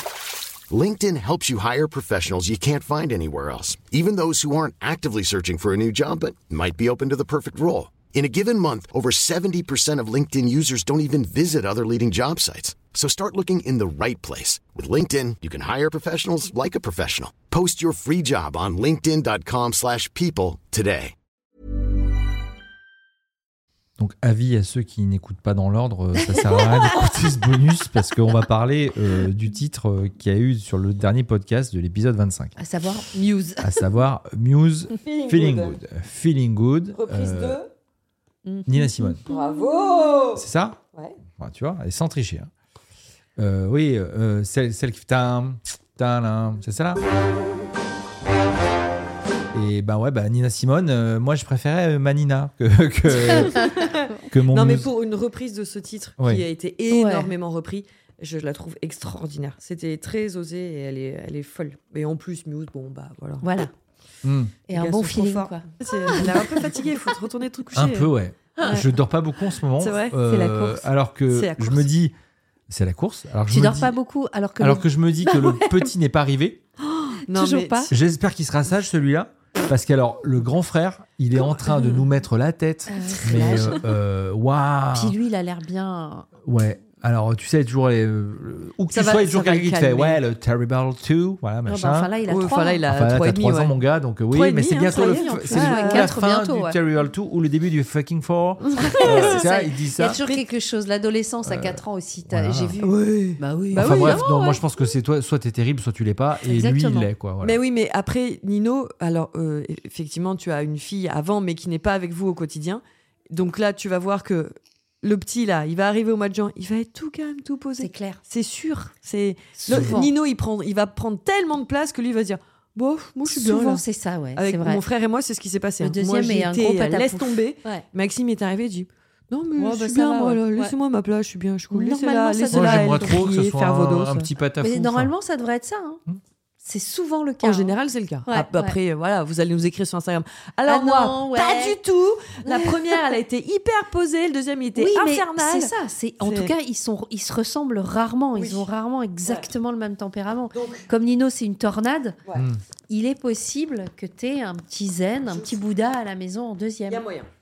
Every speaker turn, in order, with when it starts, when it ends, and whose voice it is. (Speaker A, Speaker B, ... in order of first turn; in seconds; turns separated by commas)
Speaker A: 0.7-21.1, Speaker B: 24.0-32.5, Speaker C: 26.1-27.2, Speaker C: 32.6-33.8, Speaker B: 33.6-37.6, Speaker D: 35.0-35.8, Speaker D: 36.9-37.7, Speaker C: 38.5-39.5, Speaker B: 38.7-39.2, Speaker D: 39.3-41.2, Speaker B: 40.4-40.8, Speaker B: 41.4-42.5, Speaker B: 43.4-47.0, Speaker B: 49.5-53.7, Speaker D: 53.1-63.5, Speaker B: 54.3-54.9, Speaker C: 56.9-57.3, Speaker C: 63.4-63.7, Speaker B: 64.2-64.6, Speaker C: 64.7-66.8, Speaker D: 64.7-68.9, Speaker B: 67.7-72.2, Speaker C: 68.6-68.8, Speaker D: 69.8-70.2, Speaker C: 70.2-70.9, Speaker D: 71.3-71.9, Speaker B: 72.7-73.9, Speaker C: 73.5-75.9, Speaker B: 74.6-76.6, Speaker D: 76.8-77.9, Speaker C: 77.3-77.9, Speaker B: 77.9-85.2, Speaker D: 81.5-82.1, Speaker C: 82.9-83.9, Speaker D: 83.1-83.8, Speaker C: 84.9-86.3, Speaker B: 86.4-92.1, Speaker D: 88.9-90.2, Speaker C: 91.7-92.8, Speaker D: 92.2-93.8, Speaker B: 92.9-100.2, Speaker D: 94.3-96.1, Speaker C: 94.9-96.8, Speaker D: 98.6-99.4, Speaker C: 99.0-104.3, Speaker B: 101.4-102.8, Speaker D: 102.8-104.7, Speaker B: 103.7-107.6, Speaker C: 106.4-107.1, Speaker D: 107.4-134.3, Speaker C: 117.8-118.2, Speaker C: 119.6-120.1, Speaker B: 119.7-120.0, Speaker C: 123.2-124.8, Speaker C: 125.8-127.8, Speaker C: 129.6-130.7, Speaker C: 131.7-133.2, Speaker B: 132.5-135.1, Speaker C: 134.6-136.0, Speaker C: 136.6-137.7, Speaker D: 137.4-146.5, Speaker C: 138.3-138.8, Speaker C: 140.7-141.8, Speaker C: 142.4-143.0, Speaker C: 144.8-152.2, Speaker D: 148.4-148.7, Speaker D: 150.5-150.9, Speaker B: 152.3-152.6, Speaker C: 152.9-157.0, Speaker D: 155.2-155.6, Speaker D: 156.9-157.3